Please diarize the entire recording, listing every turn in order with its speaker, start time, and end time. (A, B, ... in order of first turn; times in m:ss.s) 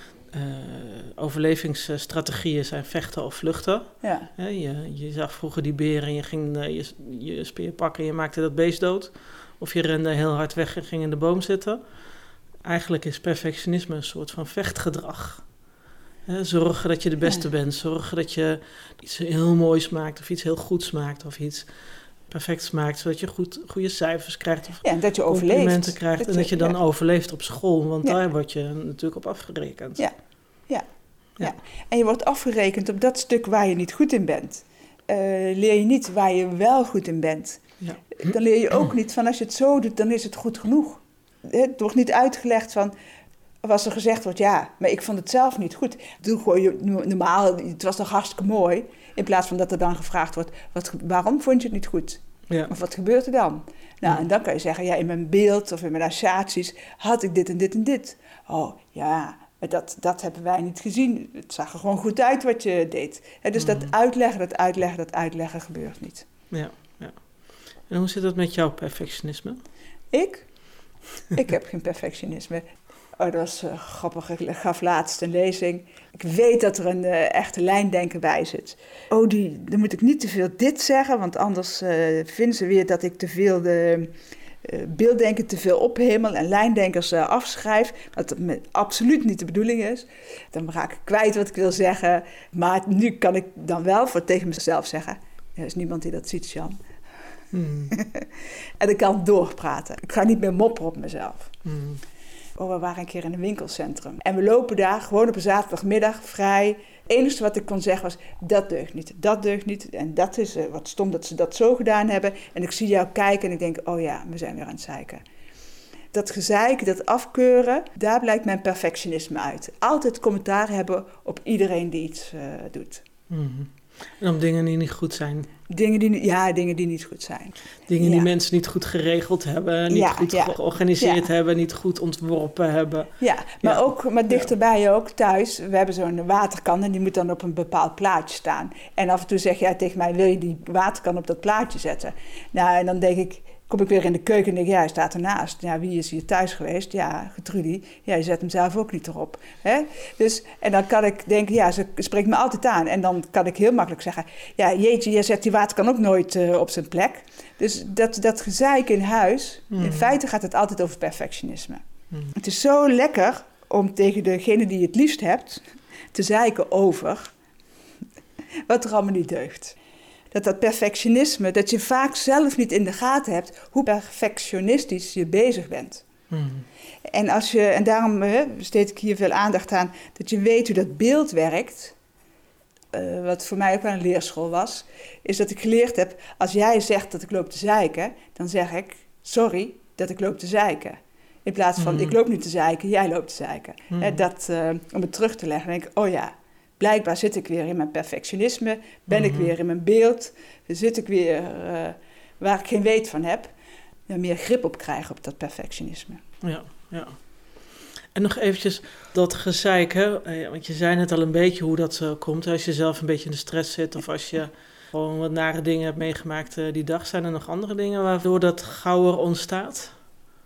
0:00.3-0:11.8 A
0:04.0-0:04.3 B
0:12.6-0:15.4 A
0:16.2-0:21.7 A
0:22.3-0:30.0 A
0:24.8-0:26.8 B
0:31.4-0:42.9 B
0:37.8-0:38.2 A
0:43.6-1:06.3 B
1:03.6-1:03.9 A
1:06.5-1:07.2 A
1:07.9-1:09.6 A
1:10.1-1:10.5 B
1:11.3-1:24.1 B
1:24.6-1:36.8 B
1:37.5-1:37.9 A
1:37.9-1:38.3 B
1:38.8-1:41.5 B
1:41.6-1:42.0 A
1:42.6-1:55.2 B
1:56.1-2:03.0 B
2:03.3-2:05.5 A
2:05.7-2:08.3 B
2:07.9-2:14.5 A
2:09.9-2:11.3 B
2:13.2-2:47.3 B
2:39.7-2:40.1 A
2:48.7-2:49.8 B
2:50.3-2:56.0 B
2:56.3-2:56.6 A
2:57.1-3:01.9 B
3:02.9-3:23.5 B
3:11.8-3:12.1 A
3:13.9-3:14.2 A
3:19.1-3:19.5 A
3:24.1-3:26.2 B
3:26.4-3:27.2 A
3:28.1-3:39.9 A